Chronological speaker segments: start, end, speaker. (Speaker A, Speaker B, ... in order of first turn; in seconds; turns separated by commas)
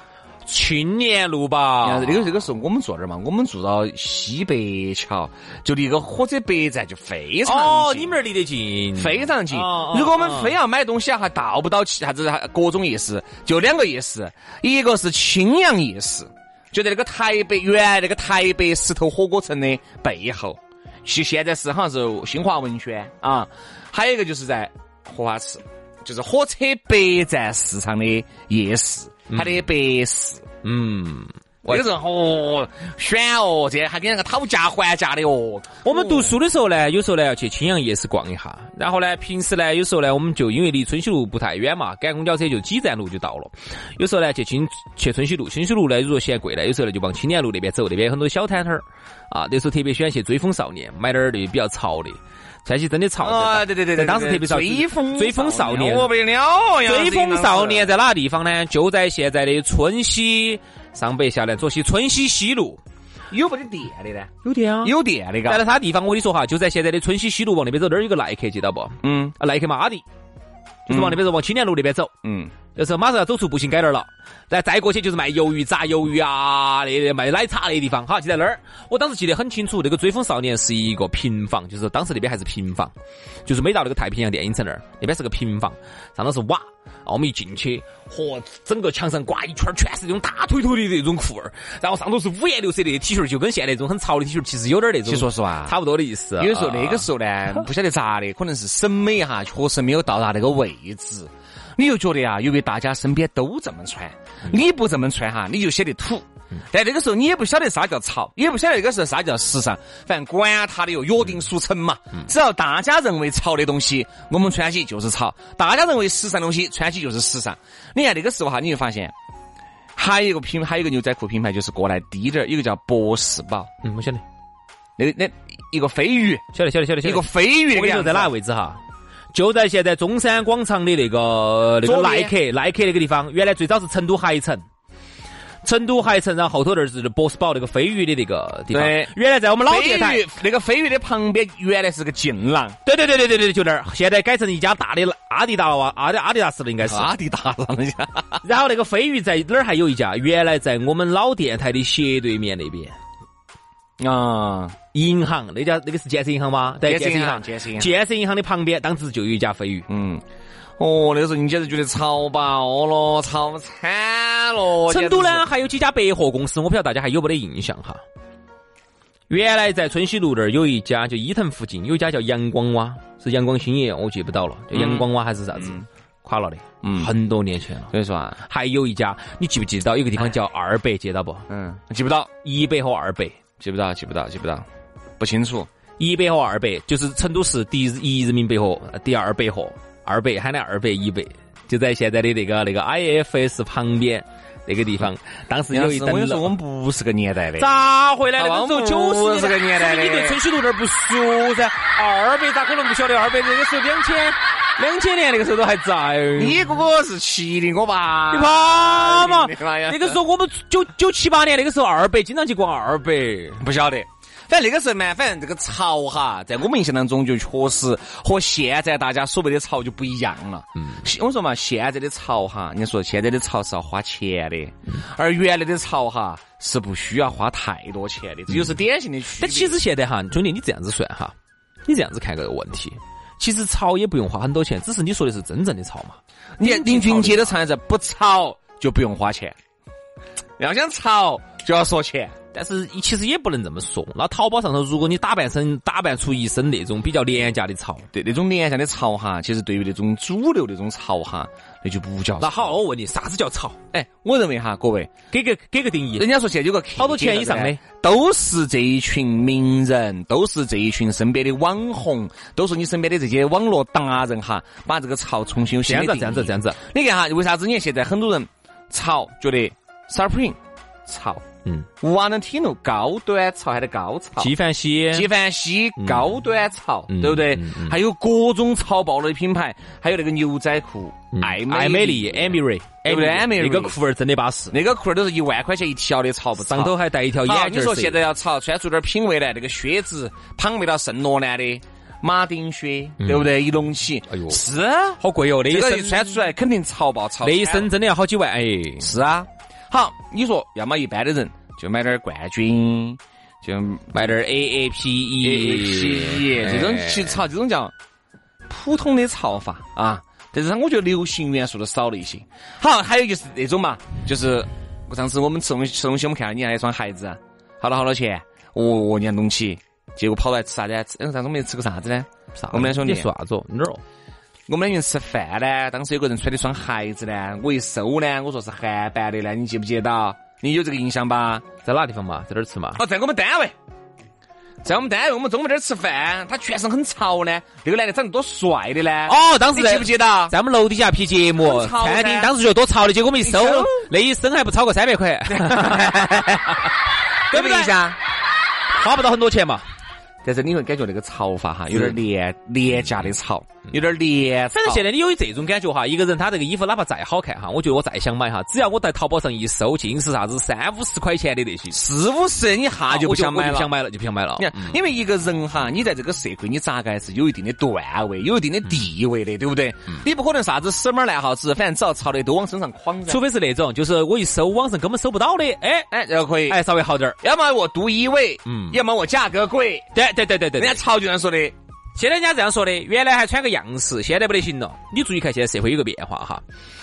Speaker A: 0.5-2.4, Speaker B: 1.8-8.2, Speaker A: 7.5-10.6, Speaker B: 8.9-30.5, Speaker A: 29.3-29.6, Speaker A: 30.6-31.9, Speaker B: 31.6-36.3, Speaker A: 35.8-56.1, Speaker B: 53.2-57.9, Speaker A: 56.8-62.8, Speaker B: 63.3-65.6, Speaker A: 64.4-64.9, Speaker A: 65.5-70.0, Speaker B: 69.0-69.3, Speaker A: 70.9-72.1, Speaker B: 70.9-71.2, Speaker B: 72.2-72.5, Speaker A: 72.8-82.9, Speaker A: 83.5-97.1, Speaker B: 95.0-95.8, Speaker B: 96.4-119.1, Speaker B: 120.0-123.7, Speaker A: 123.8-124.2, Speaker B: 125.0-126.5, Speaker A: 126.5-128.8, Speaker B: 127.0-128.3, Speaker A: 129.3-134.6, Speaker B: 131.8-132.3, Speaker A: 135.6-140.2, Speaker B: 138.7-142.8, Speaker A: 142.8-147.1, Speaker B: 146.8-148.4, Speaker A: 148.4-152.9, Speaker B: 154.0-154.8, Speaker A: 154.9-159.9, Speaker B: 156.8-157.9, Speaker B: 159.9-160.2, Speaker B: 160.8-165.4, Speaker A: 164.9-168.0, Speaker A: 169.3-181.5, Speaker B: 174.7-175.9, Speaker B: 176.8-177.1, Speaker B: 177.9-178.4, Speaker B: 181.5-182.3, Speaker A: 182.4-183.4, Speaker B: 183.6-184.7, Speaker B: 185.2-185.7, Speaker A: 186.0-196.5, Speaker B: 195.7-197.7, Speaker A: 197.6-206.6, Speaker B: 198.4-200.4, Speaker B: 206.4-210.2, Speaker A: 208.3-213.6, Speaker B: 213.6-229.8, Speaker A: 229.4-231.3, Speaker A: 231.9-237.6, Speaker B: 236.6-239.6, Speaker B: 240.6-242.3, Speaker A: 242.5-248.1, Speaker B: 248.1-252.7, Speaker A: 252.4-253.8, Speaker B: 253.9-255.1, Speaker A: 255.3-256.3, Speaker B: 256.2-271.4, Speaker A: 257.0-257.8, Speaker A: 265.9-266.8, Speaker B: 272.0-274.5, Speaker A: 274.4-275.3, Speaker B: 275.1-284.0, Speaker A: 277.1-278.0, Speaker A: 281.3-284.8, Speaker B: 284.7-297.9, Speaker A: 286.6-288.2, Speaker A: 293.2-293.5, Speaker A: 294.3-294.6, Speaker A: 295.2-296.4, Speaker A: 297.4-299.1, Speaker B: 299.0-304.2, Speaker A: 304.1-307.4, Speaker B: 305.4-307.9, Speaker B: 308.7-323.3, Speaker A: 322.6-324.0, Speaker B: 324.7-331.6, Speaker A: 331.8-333.0, Speaker B: 333.0-333.8, Speaker B: 334.8-340.6, Speaker A: 339.3-346.7, Speaker B: 341.6-342.5, Speaker B: 343.4-344.1, Speaker B: 345.5-346.6, Speaker A: 347.5-347.9, Speaker B: 347.5-348.2, Speaker A: 348.9-349.9, Speaker B: 350.4-355.1, Speaker A: 354.7-362.0, Speaker B: 361.9-363.9, Speaker A: 363.1-365.0, Speaker B: 364.6-373.4, Speaker A: 373.3-376.1, Speaker B: 376.1-376.8, Speaker A: 376.7-377.4, Speaker B: 377.4-380.1, Speaker A: 378.7-379.0, Speaker A: 380.1-381.0, Speaker B: 380.8-381.8, Speaker A: 382.1-386.6